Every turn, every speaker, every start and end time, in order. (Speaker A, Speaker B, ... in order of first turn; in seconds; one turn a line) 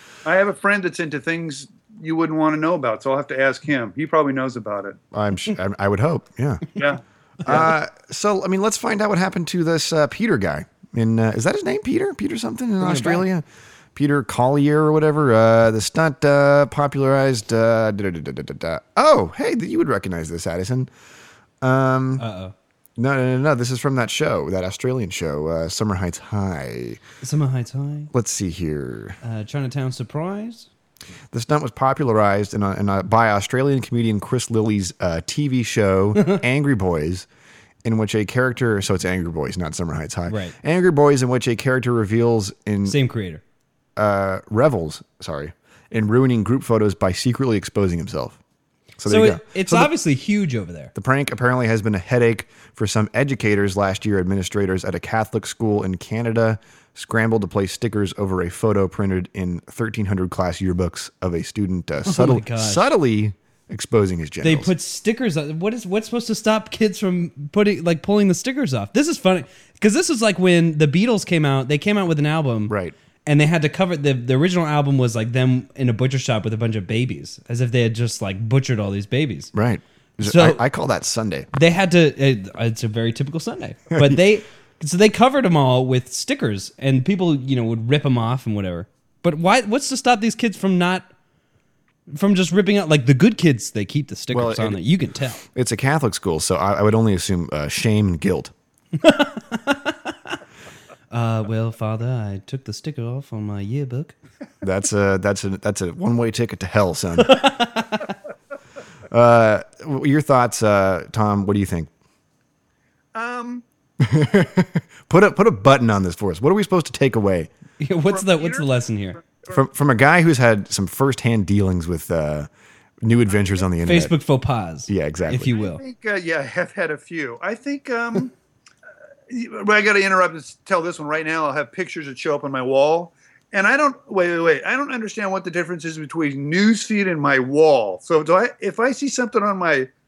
Speaker A: 0.2-5.0
Speaker B: 5.1-6.7
Speaker A: 6.8-7.5
Speaker B: 7.5-13.4
Speaker C: 12.8-13.2
Speaker B: 13.9-20.9
Speaker B: 21.6-22.2
Speaker C: 22.2-22.5
Speaker B: 23.0-27.0
Speaker C: 27.2-28.1
Speaker B: 28.1-29.2
Speaker C: 29.2-30.7
Speaker B: 31.3-37.3
Speaker B: 37.8-43.0
Speaker C: 40.3-40.5
Speaker C: 42.9-43.4
Speaker B: 44.0-48.4
Speaker B: 49.0-49.9
Speaker C: 49.1-50.9
Speaker B: 51.0-64.7
Speaker C: 62.1-62.9
Speaker C: 64.4-72.7
Speaker B: 72.7-73.0
Speaker C: 73.3-79.5
Speaker B: 79.5-81.5
Speaker C: 80.2-80.6
Speaker C: 81.5-91.1
Speaker B: 83.9-84.2
Speaker C: 92.1-95.4
Speaker B: 94.3-94.8
Speaker B: 95.4-98.5
Speaker C: 99.0-100.3
Speaker C: 101.1-104.2
Speaker B: 104.6-107.4
Speaker C: 107.2-108.1
Speaker B: 109.1-111.9
Speaker A: 113.1-113.6
Speaker B: 114.0-117.5
Speaker C: 117.8-119.2
Speaker A: 118.1-118.7
Speaker A: 119.2-119.5
Speaker B: 119.5-122.5
Speaker B: 123.0-124.1
Speaker C: 123.8-125.8
Speaker B: 124.9-125.5
Speaker A: 125.5-128.3
Speaker A: 129.3-139.9